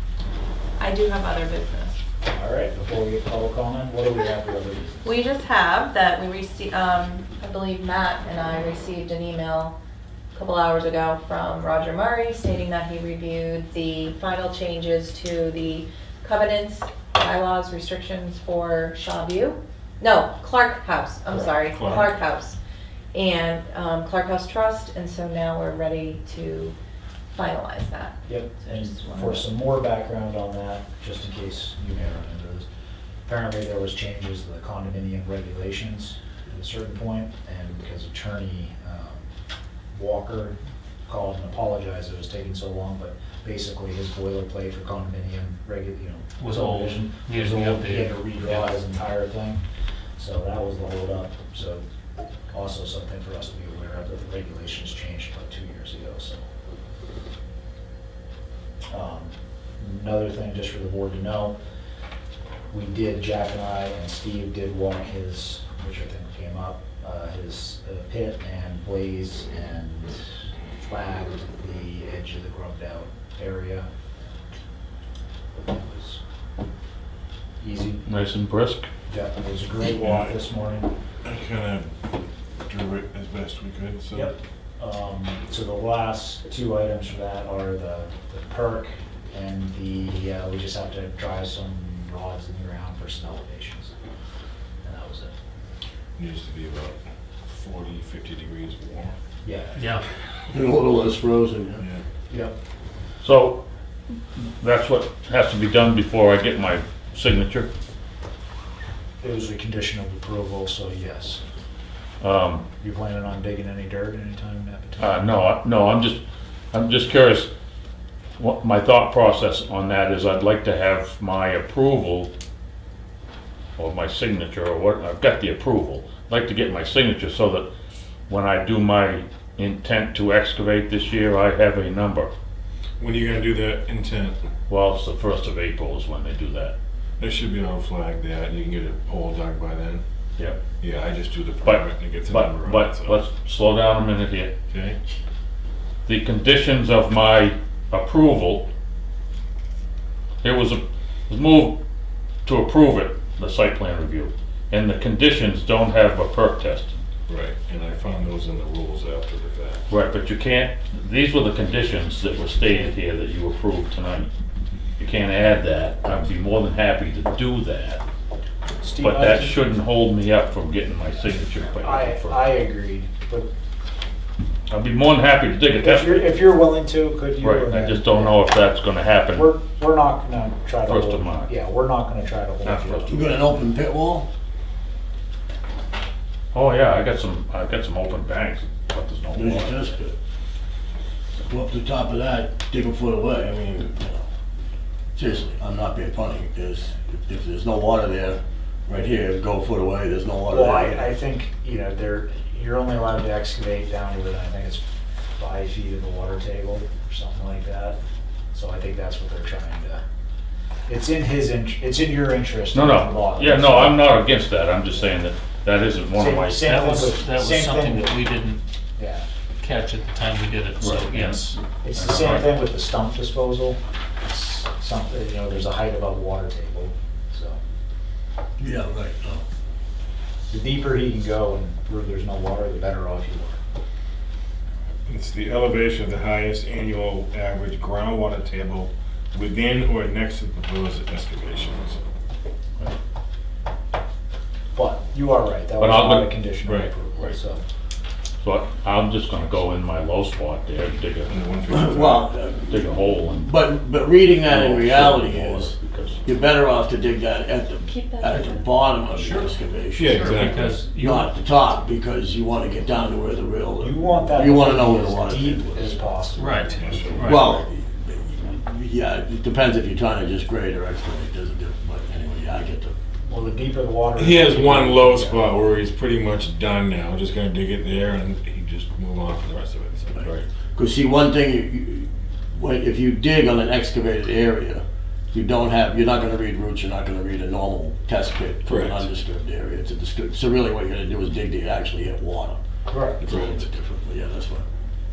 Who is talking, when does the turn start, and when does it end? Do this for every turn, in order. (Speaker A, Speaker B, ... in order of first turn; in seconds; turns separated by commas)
Speaker A: 0.8-2.0, Speaker B: 2.2-5.1, Speaker A: 5.0-9.7, Speaker A: 10.3-22.6, Speaker C: 21.7-22.1, Speaker A: 23.1-26.7, Speaker A: 27.3-29.4, Speaker B: 28.3-32.6, Speaker B: 33.2-39.2, Speaker B: 39.9-40.5, Speaker B: 41.1-49.6, Speaker D: 46.4-48.7, Speaker B: 50.2-51.8, Speaker B: 52.5-56.4, Speaker B: 58.9-61.6, Speaker B: 62.7-70.2, Speaker B: 70.8-73.9, Speaker B: 75.6-76.2, Speaker B: 77.6-78.0, Speaker E: 78.0-78.9, Speaker B: 79.1-80.9, Speaker C: 79.9-80.3, Speaker C: 81.2-81.9, Speaker C: 82.7-84.3, Speaker B: 84.1-93.9, Speaker B: 94.8-95.3, Speaker C: 96.2-99.2, Speaker B: 99.4-99.9, Speaker D: 99.8-100.0, Speaker F: 100.5-101.8, Speaker C: 101.8-102.0, Speaker B: 102.3-102.5, Speaker E: 103.2-103.6, Speaker E: 104.3-107.7, Speaker B: 109.2-111.4, Speaker E: 112.2-112.7, Speaker B: 112.8-115.3, Speaker E: 115.0-116.2, Speaker E: 116.7-117.5, Speaker E: 118.4-122.3, Speaker E: 123.8-127.7, Speaker E: 128.3-132.3, Speaker C: 133.0-134.4, Speaker E: 134.7-136.8, Speaker C: 137.2-140.0, Speaker C: 140.8-143.2, Speaker E: 141.6-144.5, Speaker C: 144.7-145.0, Speaker E: 146.1-148.7, Speaker E: 150.4-151.8, Speaker E: 152.4-157.0, Speaker C: 157.3-159.9, Speaker E: 159.9-164.3, Speaker E: 165.0-168.0, Speaker B: 168.8-169.6, Speaker E: 169.0-172.5, Speaker B: 171.8-173.5, Speaker E: 174.7-176.4, Speaker B: 175.8-178.3, Speaker E: 177.4-179.5, Speaker B: 179.3-183.1, Speaker E: 180.9-181.5, Speaker E: 182.6-183.4, Speaker F: 183.1-184.3, Speaker E: 186.5-190.0, Speaker F: 189.3-190.2, Speaker F: 191.5-194.2, Speaker F: 195.2-201.1, Speaker B: 200.5-204.8, Speaker B: 205.4-208.0, Speaker B: 208.5-210.0, Speaker B: 210.9-214.2, Speaker E: 212.7-216.7, Speaker B: 216.1-218.3, Speaker D: 216.6-218.6, Speaker B: 219.0-219.2, Speaker D: 219.6-222.4, Speaker E: 220.8-222.1, Speaker B: 221.1-227.6, Speaker F: 228.6-229.4, Speaker B: 230.5-233.6, Speaker C: 235.1-242.0, Speaker B: 244.7-247.6, Speaker E: 245.8-246.3, Speaker C: 246.7-246.9, Speaker E: 248.4-251.3, Speaker C: 251.3-252.3, Speaker F: 251.7-255.7, Speaker E: 252.7-253.5, Speaker E: 254.4-256.2, Speaker F: 256.2-260.3, Speaker A: 257.9-258.7, Speaker D: 259.0-261.3, Speaker C: 259.9-260.8, Speaker F: 260.9-266.1, Speaker B: 263.8-267.4, Speaker D: 266.3-267.5, Speaker C: 266.8-267.4, Speaker F: 267.2-272.9, Speaker B: 273.2-275.4, Speaker C: 274.1-280.3, Speaker F: 280.1-292.6, Speaker C: 288.6-289.0, Speaker B: 292.9-293.2, Speaker F: 293.2-294.6, Speaker C: 293.3-293.6